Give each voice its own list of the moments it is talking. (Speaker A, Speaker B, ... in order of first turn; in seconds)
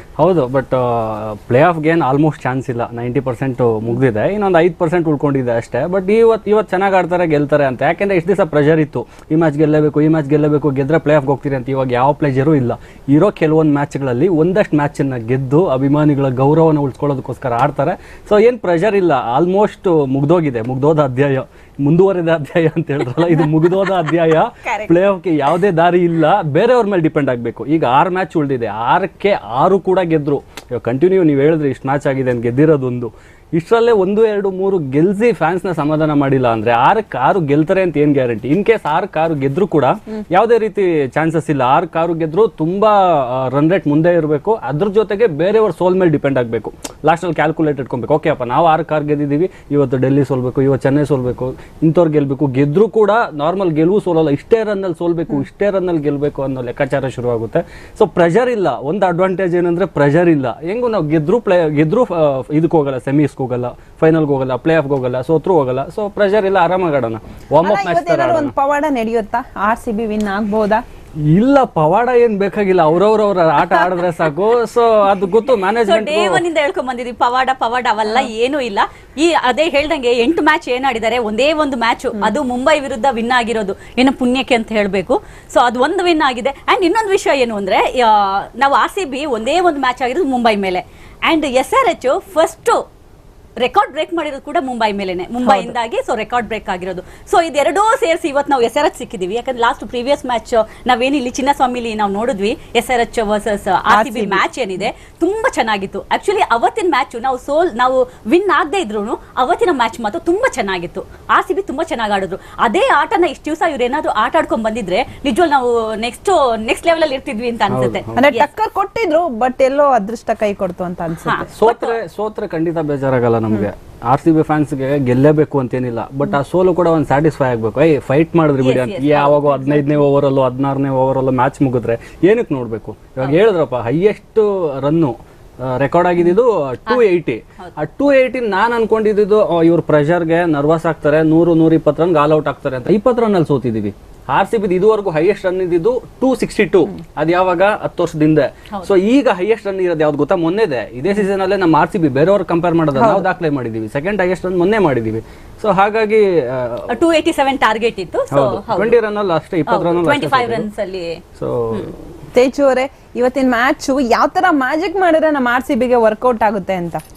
Speaker A: 0.2-68.5, 71.3-76.4, 117.7-118.2, 121.5-156.9, 158.3-160.7, 161.4-161.9
Speaker B: 24.7-24.9, 67.6-70.8, 95.5-95.7, 103.9-104.4, 118.2-121.5, 152.9-153.3, 162.3-167.0
Speaker C: 75.8-92.8, 93.6-118.5, 121.2-122.0, 128.6-130.0, 156.9-159.0, 159.7-161.2